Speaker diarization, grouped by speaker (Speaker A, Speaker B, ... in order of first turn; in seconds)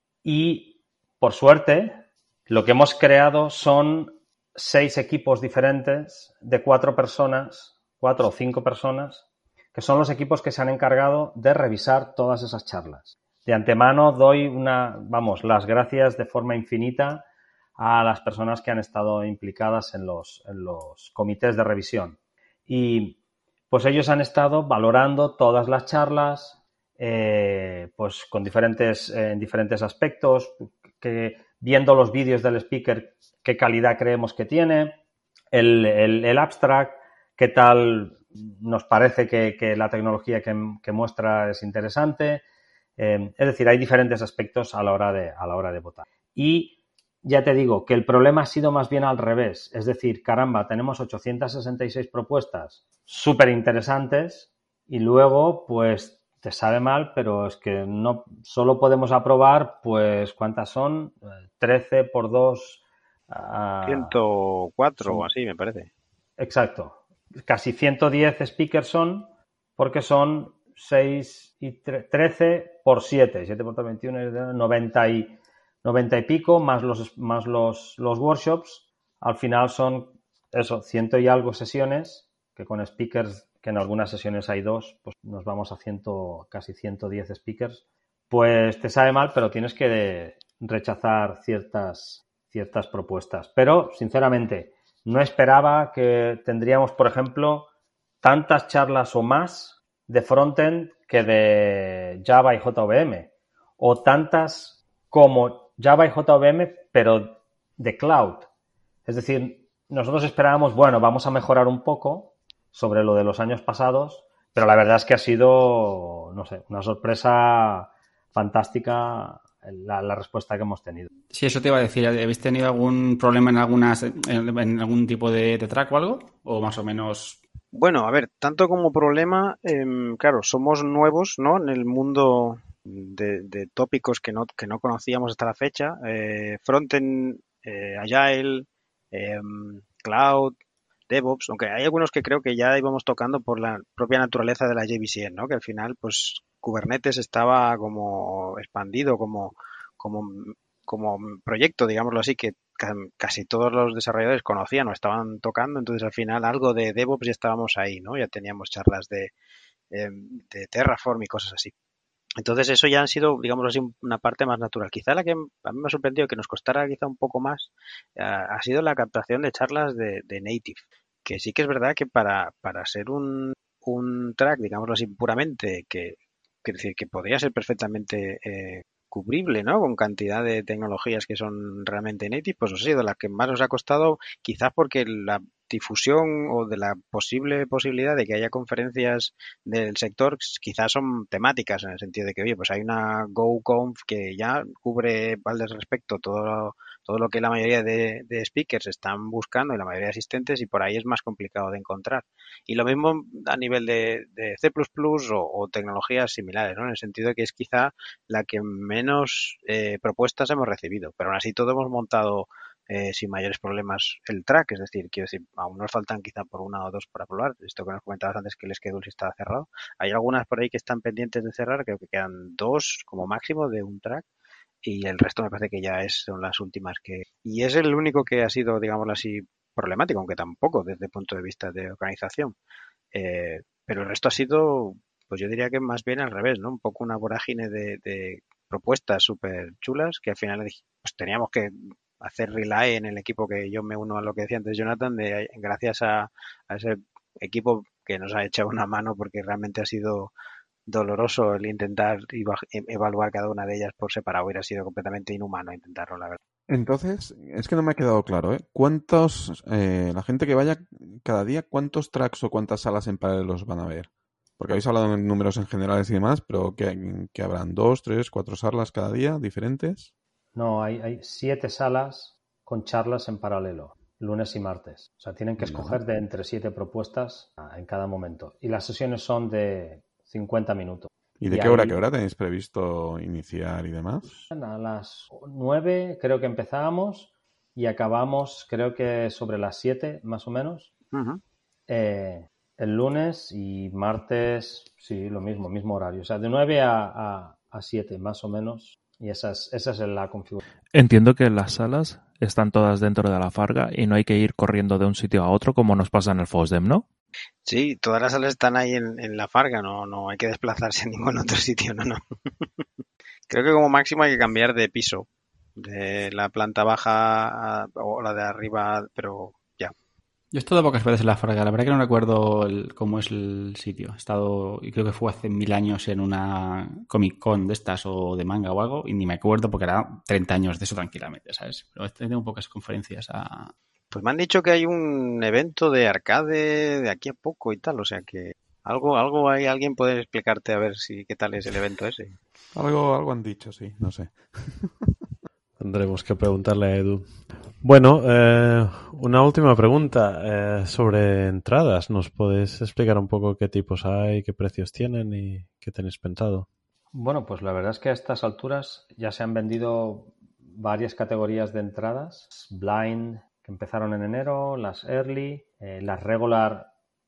Speaker A: 0.2-17.2, 17.8-22.2, 22.7-23.2, 23.7-35.0, 35.5-42.4, 43.0-64.2, 66.4-97.7, 98.2-108.5, 109.0-121.1, 270.5-282.0, 284.3-290.9, 291.9-300.6, 357.1-366.9
Speaker B: 63.8-65.9, 127.7-140.5, 141.1-159.3, 159.9-161.7, 162.4-224.2, 224.8-232.5, 233.1-250.3, 250.9-256.4, 291.1-291.4, 307.6-312.8, 313.5-319.9, 334.1-342.4
Speaker C: 121.3-127.4, 320.5-333.7
Speaker D: 256.7-270.1, 275.6-276.0, 281.4-284.4, 342.7-345.1
Speaker E: 300.9-307.0
Speaker F: 345.8-356.7